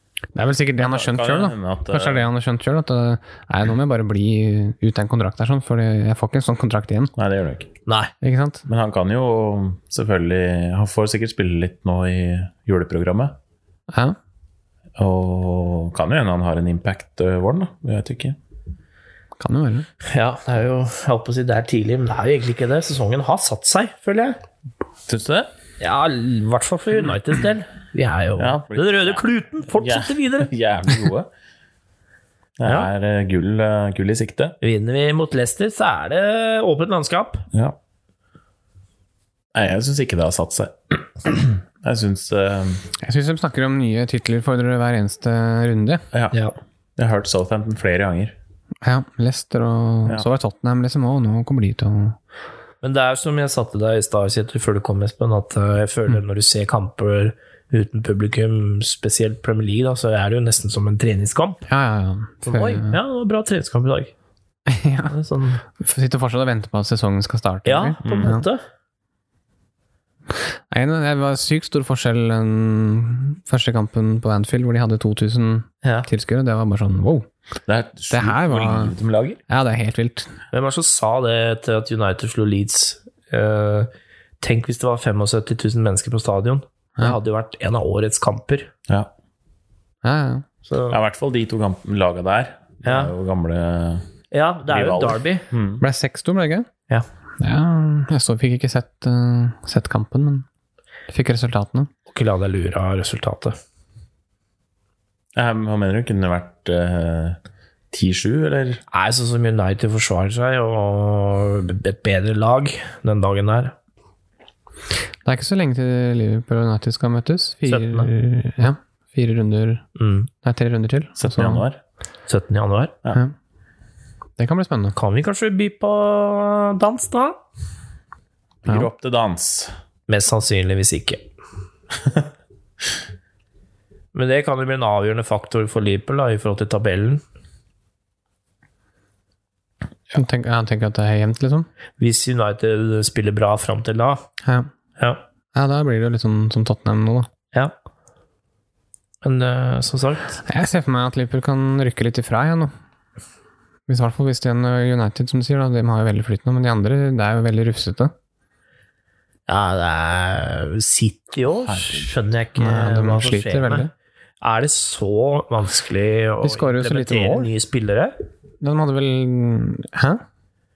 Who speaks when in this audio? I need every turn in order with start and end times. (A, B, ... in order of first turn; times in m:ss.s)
0:00.4-0:07.1 A
0:00.8-0:02.3 B
0:07.2-0:07.7 B
0:07.9-0:08.1 C
0:08.2-0:08.6 A
0:08.7-0:13.4 B
0:13.9-0:14.2 A
0:15.0-0:18.4 B
0:19.4-0:19.9 A
0:20.0-0:24.4 C
0:25.1-0:25.5 B
0:25.8-0:30.5 C
0:28.4-0:31.3 B
0:32.6-0:34.6 B
0:34.6-0:37.4 C
0:39.5-0:42.8 B
0:43.0-0:46.0 A
0:46.1-0:46.4 B
0:47.0-0:48.4 B
0:48.8-0:52.2 A
0:52.8-1:01.7 C
1:01.7-1:02.9 A
1:02.5-1:04.1 C
1:04.7-1:05.1 A
1:05.1-1:05.6 C
1:05.8-1:08.4 A
1:07.7-1:08.6 C
1:08.0-1:08.4 B
1:10.7-1:17.3 A
1:17.7-1:19.4 B
1:18.1-1:18.9 A
1:19.5-1:20.3 A
1:20.5-1:28.7 C
1:30.0-1:30.4 A
1:30.7-1:31.0 C
1:30.9-1:34.1 B
1:32.8-1:33.1 C
1:34.3-1:35.4 C
1:34.7-1:35.8 B
1:35.8-1:36.7 A
1:37.4-1:40.5 A
1:41.1-1:41.9 A
1:42.1-1:43.6 C
1:45.4-1:47.4 B
1:47.9-1:48.8 B
1:48.9-1:53.7 C
1:55.2-1:59.8 A
1:57.7-1:58.1 C
2:00.0-2:00.3 C
2:00.4-2:01.6 A
2:01.2-2:01.8 B
2:02.3-2:03.0 C
2:04.4-2:05.0 A
2:05.0-2:07.4 C
2:08.6-2:09.7 B
2:10.1-2:11.2 C
2:14.1-2:17.2 C
2:20.1-2:21.7 A
2:22.0-2:24.2 C
2:24.4-2:24.7 A
2:25.5-2:27.3 A
2:29.2-2:30.4 C
2:30.5-2:32.7 A
2:33.9-2:38.1 A
2:39.5-2:43.9 C
2:41.7-2:42.1 B
2:42.6-2:43.9 A
2:44.4-2:48.2 C
2:46.4-2:47.5 A
2:48.6-2:50.2 A